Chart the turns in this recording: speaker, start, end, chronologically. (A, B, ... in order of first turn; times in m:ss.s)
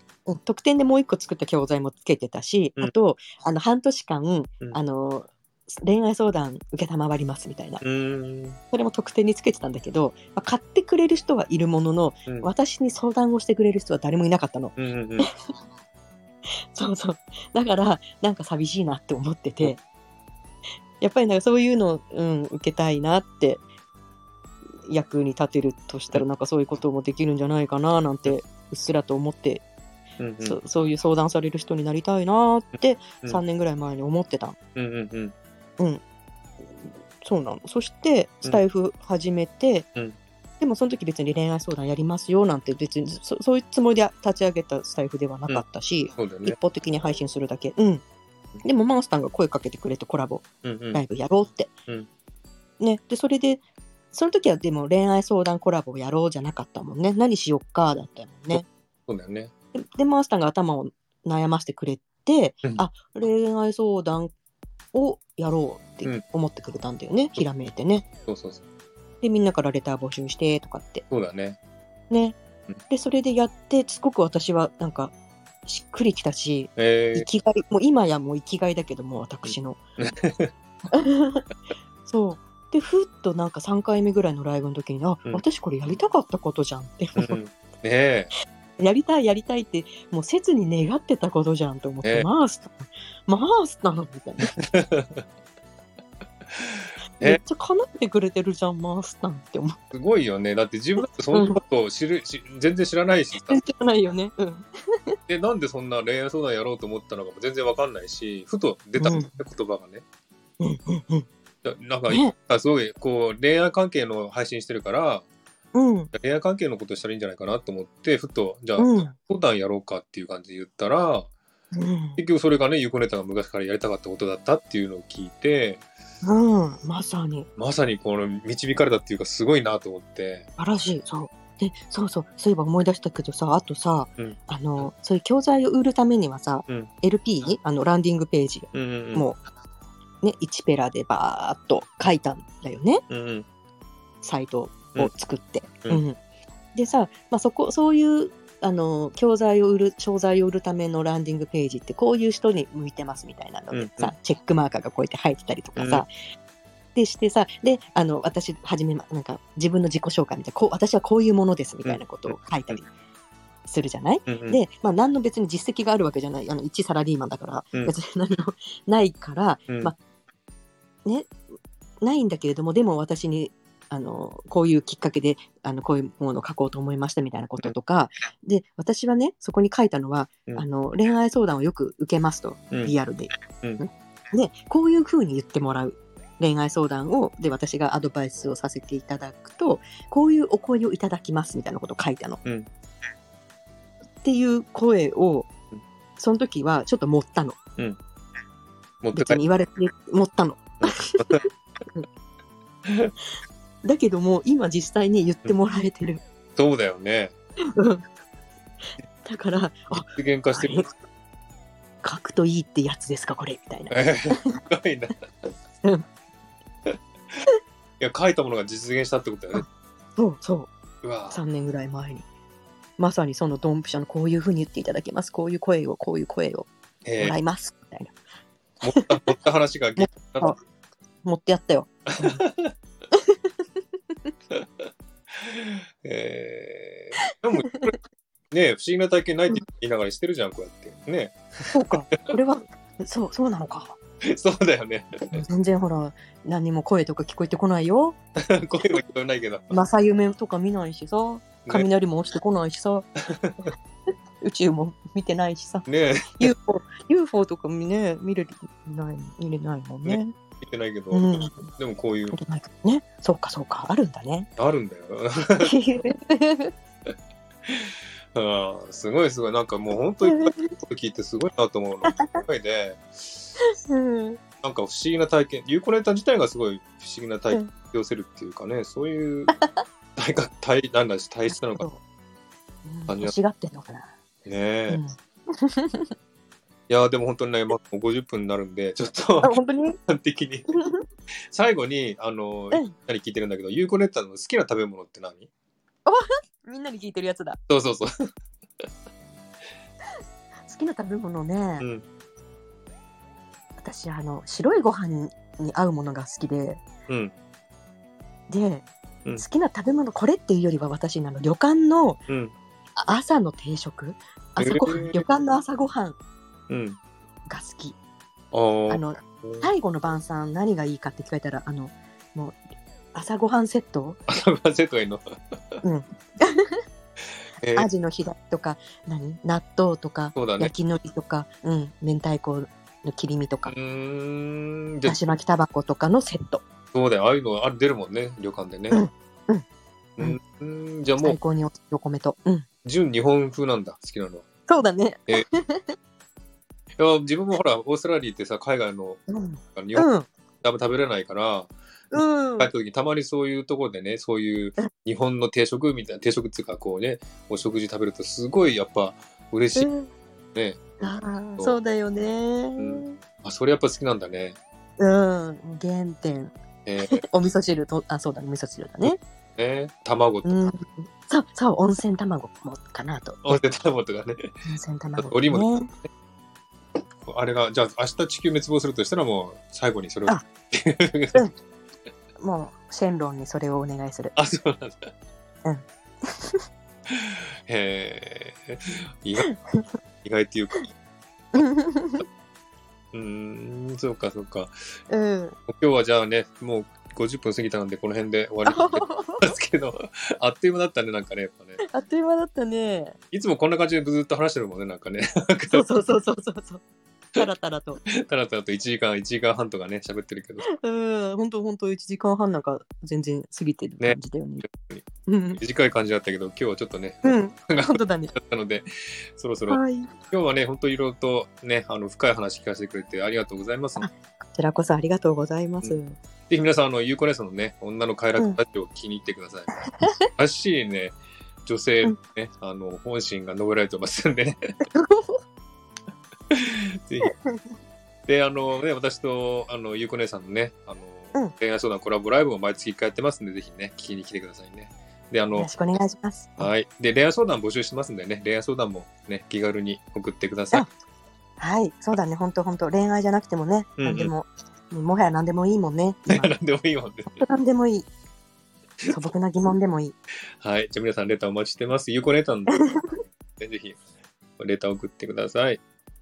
0:00.3-0:07.8 A
0:07.8-0:08.6 B
0:08.7-0:15.3 A
0:14.8-0:15.3 B
0:16.7-0:19.8 A
0:21.0-0:23.6 A
0:24.9-0:29.6 A
0:30.2-0:30.6 B
0:30.4-0:34.6 A
0:34.8-0:35.3 B
0:37.2-0:39.9 A
0:40.6-0:48.0 A
0:46.2-0:46.6 B
0:48.6-0:51.7 A
0:50.6-0:51.0 B
0:52.8-0:53.6 A
0:54.1-0:58.7 A
0:58.5-0:59.5 B
0:59.8-1:04.3 A
1:04.9-1:08.0 A
1:08.3-1:08.6 B
1:09.2-1:11.1 A
1:11.1-1:11.6 B
1:12.1-1:12.4 A
1:12.9-1:15.1 A
1:15.7-1:19.8 A
1:16.8-1:17.3 B
1:19.5-1:20.5 B
1:20.9-1:21.4 A
1:22.0-1:27.4 A
1:27.2-1:28.3 B
1:28.8-1:34.5 A
1:34.6-1:35.2 B
1:36.5-1:37.4 B
1:37.2-1:39.8 A
1:39.9-1:43.6 B
1:41.3-1:41.6 A
1:43.5-1:45.2 A
1:45.3-1:50.0 B
1:49.0-1:49.3 A
1:50.6-1:51.3 A
1:51.6-1:55.3 B
1:52.1-1:52.4 A
1:55.7-1:56.1 A
1:56.1-2:01.3 B
1:58.8-1:59.2 A
2:01.7-2:02.2 A
2:02.2-2:05.8 B
2:06.2-2:07.5 A
2:07.6-2:10.5 B
2:10.6-2:19.4 A
2:14.2-2:14.9 B
2:18.7-2:19.3 B
2:20.2-2:23.0 A
2:23.1-2:23.5 B
2:24.2-2:26.2 A
2:26.8-2:36.1 A
2:33.7-2:34.1 B
2:35.8-2:36.0 B
2:37.0-2:42.9 A
2:41.8-2:42.8 B
2:43.7-2:50.0 A
2:44.3-2:44.6 B
2:51.0-2:51.4 A
2:52.0-3:12.4 A
3:14.2-3:15.5 A
3:16.2-3:17.6 A
3:19.0-3:19.4 B
3:19.1-3:22.1 A
3:20.8-3:21.4 B
3:22.9-3:23.1 B
3:23.8-3:26.2 A
3:26.6-3:27.3 B
3:27.6-3:28.0 A
3:29.2-3:30.9 A
3:30.1-3:30.9 B
3:32.0-3:34.6 A
3:33.9-3:35.5 B
3:36.9-3:37.4 B
3:38.0-3:39.6 B
3:40.2-3:40.7 A
3:41.0-3:41.4 B
3:41.3-3:42.2 A
3:43.0-3:48.2 A
3:47.0-3:47.4 B
3:48.8-3:50.6 B
3:48.9-3:49.3 A
3:50.0-3:50.6 A
3:51.2-3:52.4 A
3:52.1-3:52.7 B
3:53.1-3:53.5 A
3:54.5-3:58.0 B
3:58.5-4:01.9 B
4:01.7-4:04.0 A
4:04.2-4:05.4 B
4:05.3-4:08.2 A
4:08.4-4:09.7 B
4:09.7-4:13.1 A
4:13.3-4:13.7 B
4:14.4-4:15.9 A
4:15.9-4:16.5 B
4:16.4-4:20.3 A
4:20.0-4:22.4 B
4:21.1-4:21.7 A
4:22.3-4:24.5 A
4:24.6-4:25.7 B
4:25.6-4:26.7 A
4:27.7-4:33.5 B
4:30.2-4:30.7 A
4:32.0-4:32.4 A
4:33.9-4:34.4 A
4:34.6-4:39.5 B
4:39.6-4:39.8 A
4:40.2-4:41.9 B
4:41.5-4:42.0 A
4:42.8-4:44.1 A
4:43.1-4:43.3 B
4:44.4-4:45.0 B
4:44.9-4:46.1 A
4:46.9-4:50.8 B
4:49.4-4:50.0 A
4:50.7-4:51.0 A
4:51.5-4:55.5 B
4:56.1-4:57.6 A
4:57.7-4:58.1 B
5:00.7-5:01.9 A
5:03.8-5:06.8 A
5:07.1-5:07.3 B
5:08.5-5:12.2 A
5:12.3-5:12.5 B
5:13.0-5:16.2 A
5:14.6-5:15.2 B
5:16.7-5:17.0 B
5:17.5-5:18.0 A
5:18.5-5:19.7 B
5:18.9-5:22.6 A
5:23.1-5:24.2 A
5:24.3-5:25.8 B
5:25.8-5:26.8 A
5:27.6-5:27.9 B
5:27.8-5:33.7 A
5:30.4-5:30.7 B
5:33.7-5:35.2 B
5:35.1-5:36.6 A
5:36.9-5:39.0 B
5:38.9-5:39.6 A
5:40.2-5:41.4 B
5:41.2-5:42.7 A
5:42.8-5:44.4 B
5:44.7-5:46.0 A
5:47.0-5:49.2 B
5:49.3-5:50.3 A
5:49.8-5:50.1 B
5:50.6-5:59.9 B
5:52.1-5:52.7 A
5:59.8-6:00.1 A
6:01.0-6:03.2 A
6:02.8-6:04.6 B
6:05.0-6:06.5 A
6:06.9-6:07.2 B
6:07.1-6:09.2 A
6:09.0-6:10.6 B
6:10.4-6:13.4 A
6:13.4-6:14.6 B
6:14.7-6:15.9 A
6:15.2-6:15.8 B
6:17.2-6:21.4 B
6:22.4-6:24.3 A
6:24.4-6:25.1 B
6:25.6-6:26.6 A
6:27.1-6:29.5 B
6:29.4-6:29.8 A
6:30.2-6:30.9 B
6:31.5-6:32.2 A
6:33.1-6:34.7 B
6:35.1-6:35.6 A
6:35.7-6:41.8 B
6:38.6-6:39.5 A
6:41.8-6:43.2 A
6:43.3-6:45.9 B
6:45.7-6:46.8 A
6:47.4-6:48.0 A
6:48.1-6:50.7 B
6:50.7-6:54.7 A
6:54.0-6:55.1 B
6:55.3-6:55.6 A
6:55.6-7:04.1 B
6:57.2-6:58.4 A
6:59.7-7:00.1 A
7:04.0-7:06.2 A
7:05.8-7:09.8 B
7:10.4-7:14.8 B
7:14.9-7:15.4 A
7:16.5-7:17.3 B
7:17.2-7:17.6 A
7:18.3-7:25.7 B
7:25.6-7:26.7 A
7:26.6-7:30.9 B
7:31.6-7:36.5 A
7:34.0-7:34.3 B
7:36.3-7:37.4 B
7:37.4-7:38.1 A
7:39.0-7:39.3 B
7:39.1-7:40.2 A
7:40.6-7:42.9 B
7:42.7-7:42.9 A
7:43.6-7:44.0 B
7:44.6-7:45.8 B